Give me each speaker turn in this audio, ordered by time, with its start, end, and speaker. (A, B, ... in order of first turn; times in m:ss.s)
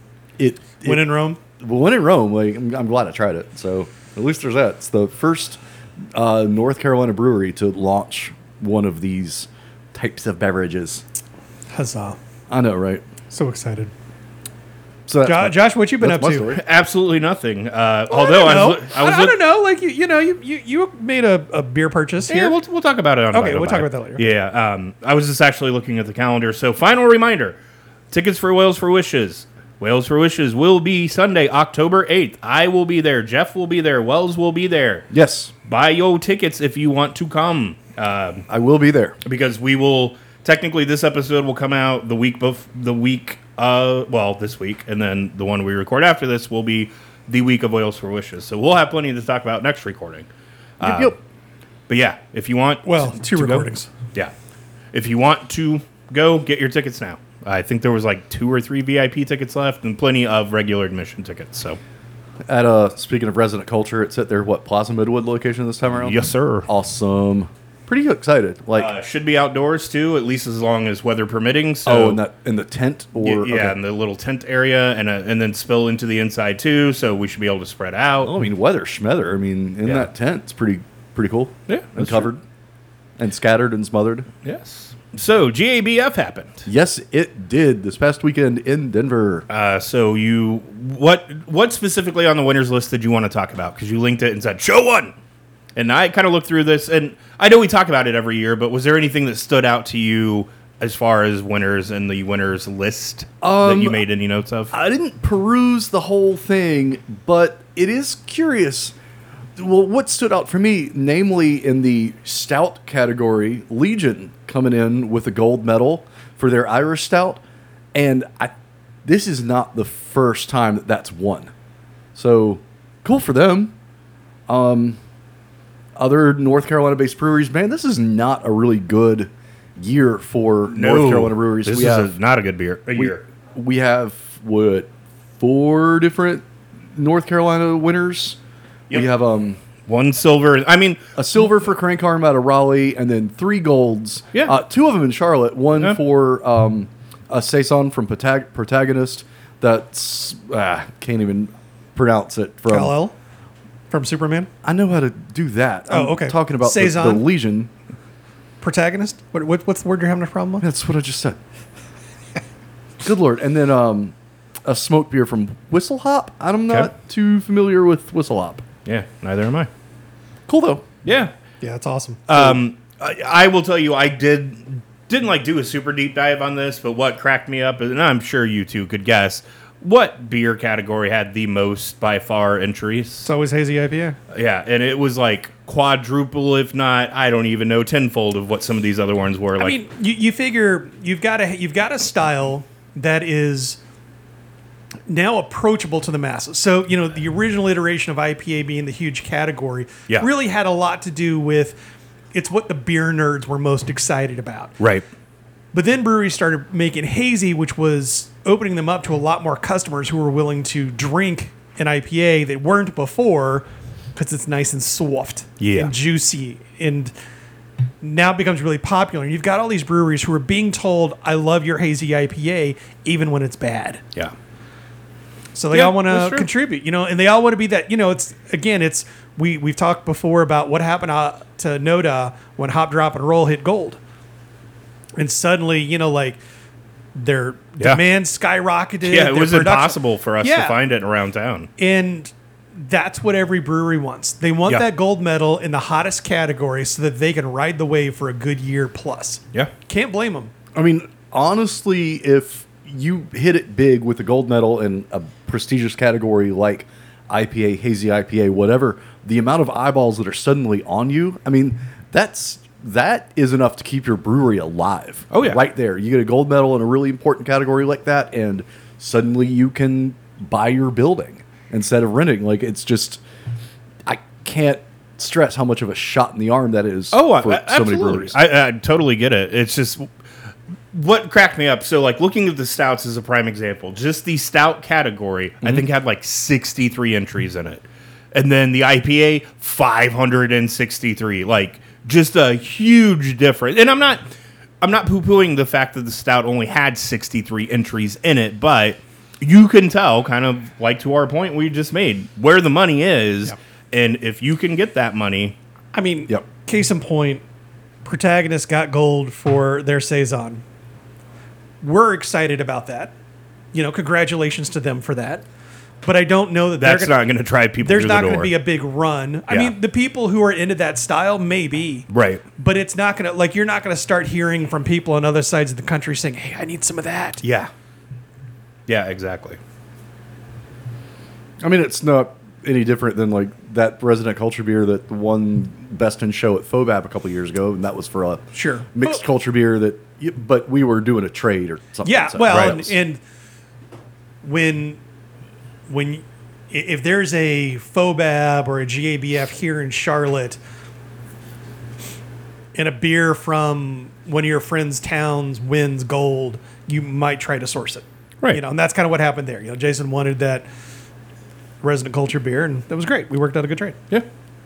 0:00.4-0:05.6 A
0:00.8-0:01.4 B
0:06.1-0:11.0 A
0:11.7-0:12.2 B
0:12.5-0:13.0 A
0:13.3-0:13.9 B
0:15.1-0:16.6 A
0:15.2-0:16.5 B
0:16.5-0:19.4 C
0:18.1-0:22.6 B
0:22.3-0:27.6 C
0:23.3-0:24.2 B
0:28.1-0:35.1 C
0:35.1-0:35.5 A
0:35.7-0:38.5 C
0:38.5-0:39.2 A
0:39.2-0:50.3 C
0:50.8-0:51.2 C
0:50.8-0:51.2 A
0:51.9-0:54.3 C
0:52.8-0:53.9 B
0:54.9-1:01.8 C
1:02.5-1:08.9 A
1:06.0-1:06.7 C
1:08.8-1:12.2 C
1:11.8-1:13.8 A
1:13.2-1:18.3 C
1:18.2-1:22.4 A
1:21.7-1:22.3 C
1:23.2-1:24.3 A
1:24.4-1:26.6 C
1:26.7-1:29.5 A
1:29.5-1:35.1 C
1:35.8-1:44.7 C
1:43.4-1:44.0 A
1:44.7-1:48.9 A
1:49.6-1:57.4 A
1:57.9-1:58.5 A
1:59.0-2:01.5 A
2:02.2-2:03.7 A
2:04.5-2:05.0 A
2:06.0-2:12.1 A
2:10.7-2:13.2 C
2:13.0-2:16.4 A
2:17.0-2:18.4 A
2:18.9-2:19.6 A
2:19.9-2:21.0 C
2:21.2-2:33.0 A
2:32.7-2:33.1 B
2:33.9-2:34.5 B
2:34.6-2:37.7 A
2:35.9-2:37.3 B
2:38.6-2:40.7 B
2:40.6-2:41.4 A
2:43.0-2:48.6 A
2:48.8-2:49.7 C
2:50.5-2:50.9 A
2:51.0-2:51.3 C
2:51.6-2:52.3 B
2:52.3-3:03.3 C
2:52.3-2:52.6 A
3:03.2-3:04.2 B
3:04.3-3:09.8 C
3:09.6-3:13.8 B
3:15.1-3:21.8 B
3:22.3-3:24.8 B
3:24.8-3:25.1 C
3:25.7-3:37.1 B
3:35.6-3:35.9 C
3:38.0-3:44.0 B
3:45.6-3:54.0 B
3:45.7-3:46.5 C
3:55.2-3:56.4 B
3:57.2-4:00.8 B
3:59.0-4:01.7 C
4:01.8-4:10.5 B
4:10.8-4:33.2 A
4:25.3-4:25.6 C
4:34.1-4:38.4 A
4:37.1-4:40.1 C
4:40.9-4:54.2 C
4:54.8-5:05.6 C
5:05.9-5:07.4 B
5:08.0-5:10.6 B
5:11.8-5:13.1 B
5:13.7-5:15.4 B
5:16.0-5:17.2 B
5:16.8-5:18.6 C
5:17.8-5:27.4 B
5:19.5-5:19.7 C
5:22.1-5:22.4 C
5:27.4-5:27.7 C
5:28.9-5:29.6 C
5:31.6-5:43.0 A
5:38.6-5:39.1 B
5:42.0-5:43.2 B
5:42.5-5:42.8 C
5:44.4-5:45.0 B
5:45.9-5:50.6 B
5:52.8-6:00.7 B
6:01.8-6:04.0 B